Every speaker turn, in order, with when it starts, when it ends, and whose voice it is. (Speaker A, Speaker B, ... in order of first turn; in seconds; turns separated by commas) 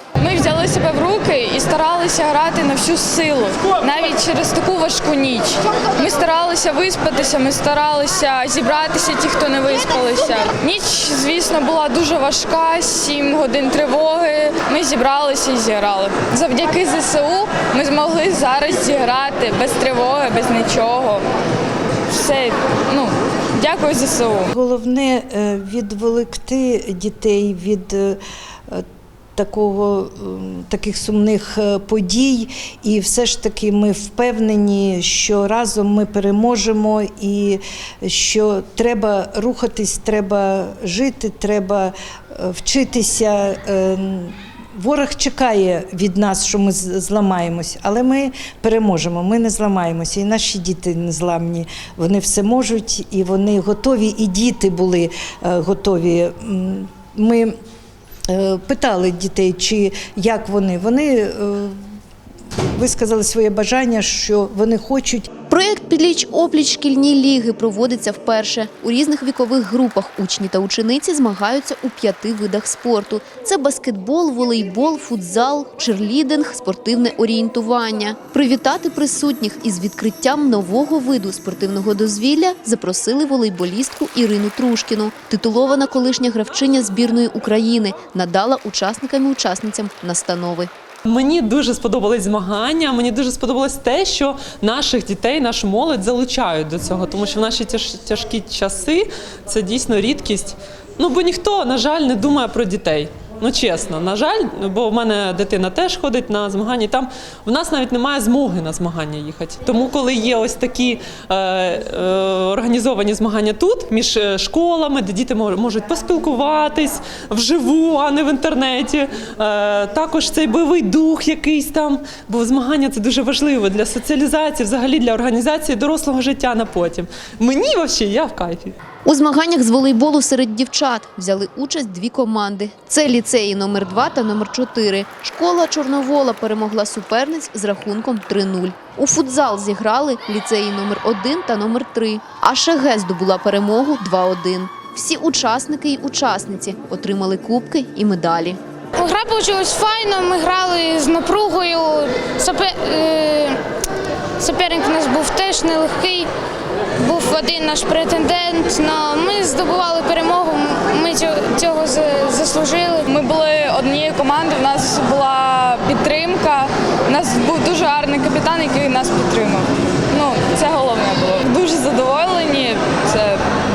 Speaker A: 0.2-21.2, Speaker A: 22.1-24.5, Speaker B: 24.5-28.8, Speaker B: 29.4-57.5, Speaker B: 58.3-61.8, Speaker B: 62.7-65.3, Speaker C: 65.5-90.7, Speaker D: 91.1-128.8, Speaker C: 129.1-148.6, Speaker E: 149.0-153.6, Speaker E: 154.4-156.3, Speaker E: 157.0-163.1, Speaker A: 163.0-173.4